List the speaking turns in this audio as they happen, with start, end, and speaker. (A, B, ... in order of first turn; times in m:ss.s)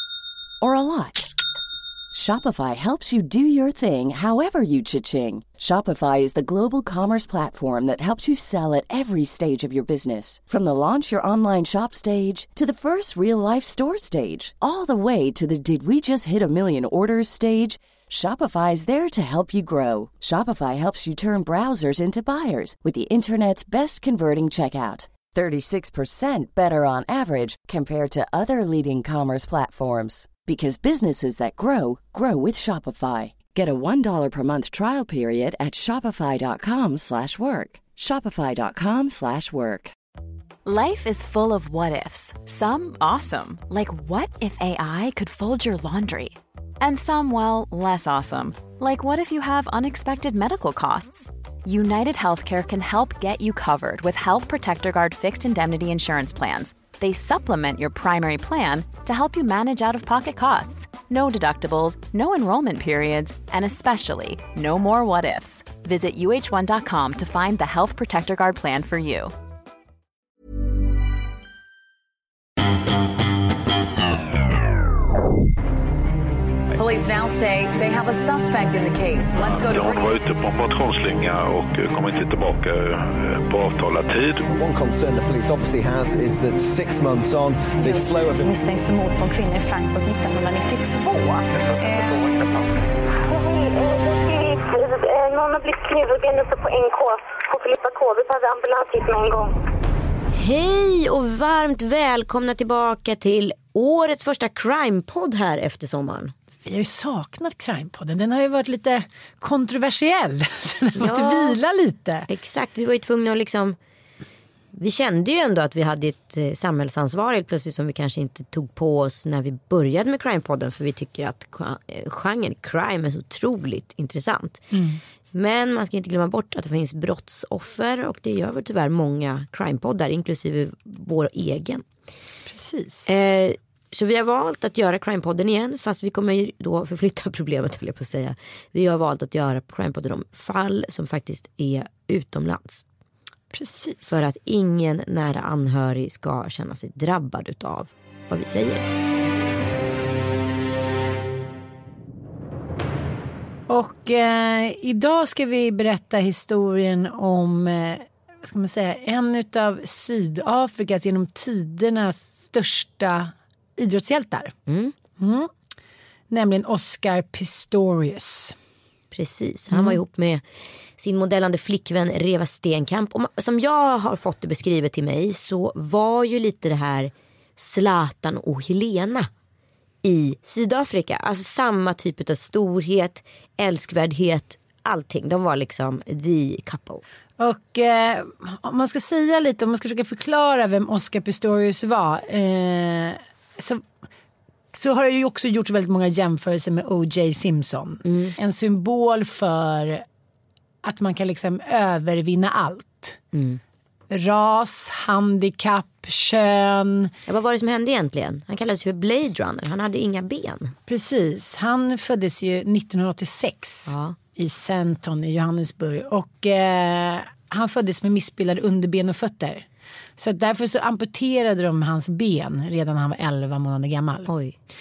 0:00.6-0:01.3 A
0:02.1-0:39.9 A
0:40.6-1:09.3 B
1:16.7-1:20.2 C
1:19.4-1:24.4 D
1:24.5-1:28.6 E
1:27.9-1:32.3 F
1:33.2-1:39.5 G
1:40.3-1:46.3 H
1:46.6-1:52.3 I
1:51.0-1:51.6 H
1:52.3-1:53.8 H
1:54.7-2:04.7 H
2:04.7-2:05.0 I
2:05.3-2:11.8 H
2:12.5-2:13.0 I
2:13.0-2:22.8 H
2:23.5-2:24.2 I
2:24.1-2:28.8 H
2:33.7-2:44.5 I
2:44.7-2:44.9 H
2:45.2-2:45.5 I
2:46.3-2:48.6 I
2:49.1-2:50.4 H
2:49.7-2:50.0 I
2:51.0-2:59.3 H
3:00.0-3:07.0 H
3:07.4-3:13.9 I
3:14.7-3:20.0 I
3:18.0-3:18.4 H
3:20.8-3:23.2 I
3:23.3-3:23.6 H
3:24.1-3:27.1 I
3:27.3-3:30.7 H
3:30.9-3:39.6 I
3:33.9-3:34.2 H
3:40.2-3:44.3 I
3:44.3-3:44.5 H